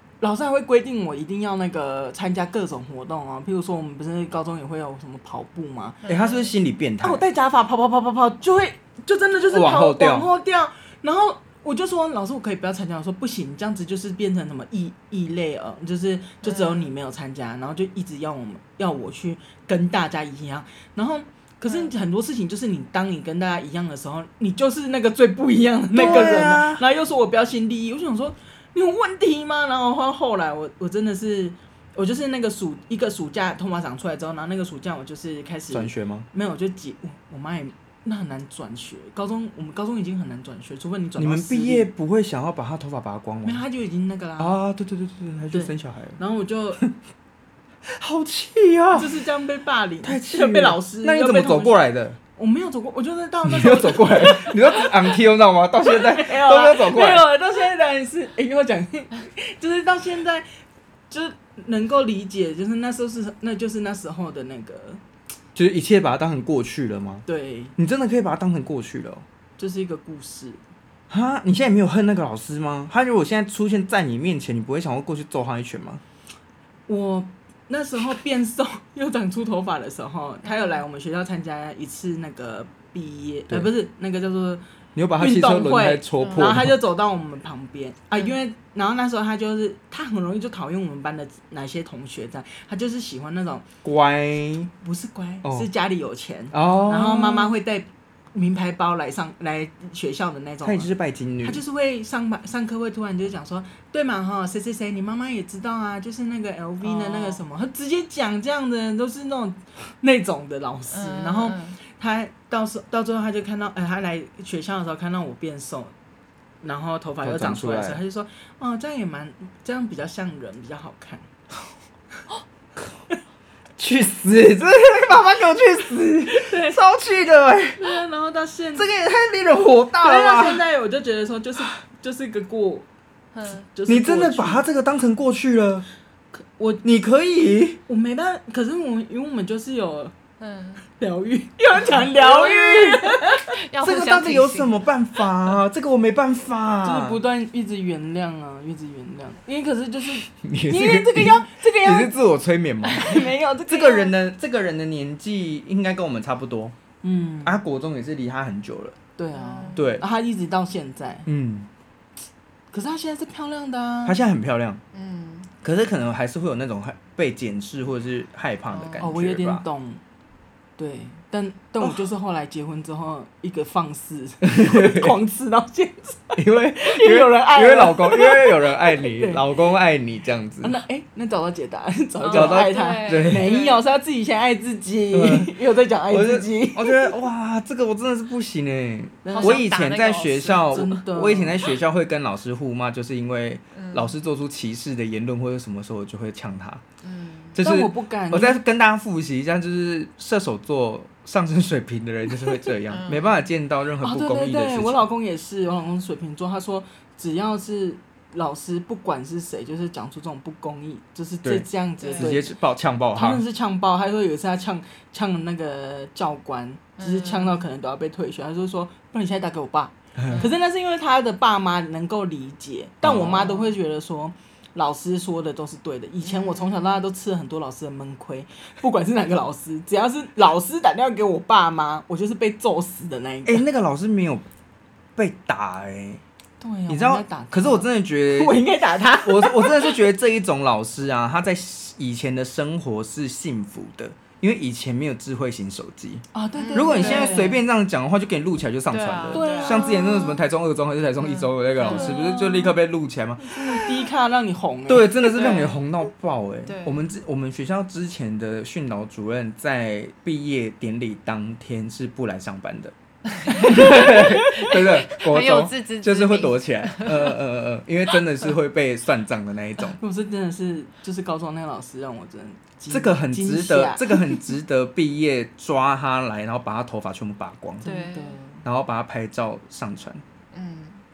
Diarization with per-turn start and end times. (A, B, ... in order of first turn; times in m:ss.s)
0:00.2-0:06.0 A
0:06.0-0:06.5 B
0:06.1-0:07.2 C
0:07.0-0:41.9 A
0:09.5-0:10.3 C
0:16.4-0:16.9 B
0:21.6-0:21.9 B
0:25.9-0:26.8 C
0:35.7-0:36.3 C
0:41.2-0:43.6 C
0:43.4-0:44.6 A
0:44.4-0:46.2 C
0:45.5-0:46.8 A
0:47.9-0:49.2 C
0:48.9-0:51.8 A
0:50.0-0:52.2 C
0:52.4-0:55.2 A
0:53.4-0:57.3 C
0:55.9-1:00.5 A
1:01.1-1:05.0 A
1:05.6-1:07.2 C
1:07.3-1:07.8 A
1:07.8-1:09.2 C
1:09.6-1:10.6 A
1:11.1-1:16.0 C
1:16.9-1:24.6 A
1:20.5-1:20.8 B
1:25.0-1:26.8 C
1:25.2-1:33.7 A
1:26.2-1:26.6 B
1:33.8-1:34.7 C
1:34.8-1:40.9 A
1:36.5-1:37.5 C
1:40.6-1:41.6 C
1:41.4-1:55.9 A
1:46.8-1:47.4 B
1:50.9-1:51.8 B
1:56.6-2:01.3 A
1:57.2-1:58.0 C
2:03.8-2:07.8 C
2:06.3-2:06.8 A
2:07.8-2:08.9 A
2:08.8-2:10.6 C
2:10.0-2:12.9 A
2:13.3-2:13.7 B
2:13.7-2:14.7 A
2:13.9-2:15.9 C
2:16.4-2:16.8 A
2:16.8-2:17.8 C
2:17.9-2:20.1 A
2:20.4-2:20.8 B
2:20.9-2:23.5 A
2:21.8-2:24.8 B
2:23.8-2:27.2 C
2:26.8-2:32.2 A
2:30.2-2:36.8 C
2:33.0-2:34.1 A
2:37.0-2:37.6 A
2:37.4-2:39.0 C
2:39.2-2:41.3 A
2:39.3-2:39.8 B
2:39.8-2:40.0 C
2:41.2-2:41.7 C
2:42.7-2:44.2 A
2:44.0-2:44.8 C
2:44.9-2:45.5 B
2:45.6-2:49.6 C
2:48.7-2:49.1 B
2:49.0-2:50.0 A
2:50.8-2:59.5 A
2:54.4-2:55.1 C
2:56.4-3:00.8 C
3:00.6-3:07.1 A
3:02.2-3:03.8 B
3:02.3-3:03.5 C
3:05.1-3:05.6 C
3:06.1-3:16.8 C
3:09.2-3:09.7 A
3:09.3-3:10.9 B
3:10.7-3:11.6 A
3:13.8-3:14.1 B
3:17.0-3:17.6 B
3:17.6-3:25.0 C
3:17.6-3:18.6 A
3:22.9-3:23.4 B
3:24.0-3:32.5 A
3:32.0-3:32.3 B
3:32.2-3:33.4 C
3:33.1-3:53.6 A
3:37.0-3:37.6 B
3:40.2-3:40.5 C
3:40.3-3:40.6 B
3:43.0-3:43.6 C
3:46.2-3:47.1 B
3:53.4-3:54.5 C
3:55.2-3:56.2 C
3:56.6-4:00.0 A
3:56.9-3:58.6 C
3:59.2-4:13.6 C
4:06.3-4:07.6 A
4:06.6-4:07.5 B
4:08.9-4:10.3 B
4:09.3-4:10.4 A
4:11.2-4:12.2 B
4:11.8-4:12.8 A
4:13.4-4:15.6 A
4:14.9-4:22.9 C
4:15.3-4:15.8 B
4:16.7-4:17.1 B
4:23.4-4:27.4 B
4:23.5-4:30.0 C
4:23.7-4:24.7 A
4:30.0-4:34.5 A
4:32.9-4:37.9 C
4:37.8-4:38.6 A
4:37.8-4:38.4 B
4:38.6-4:40.2 C
4:40.5-4:41.0 B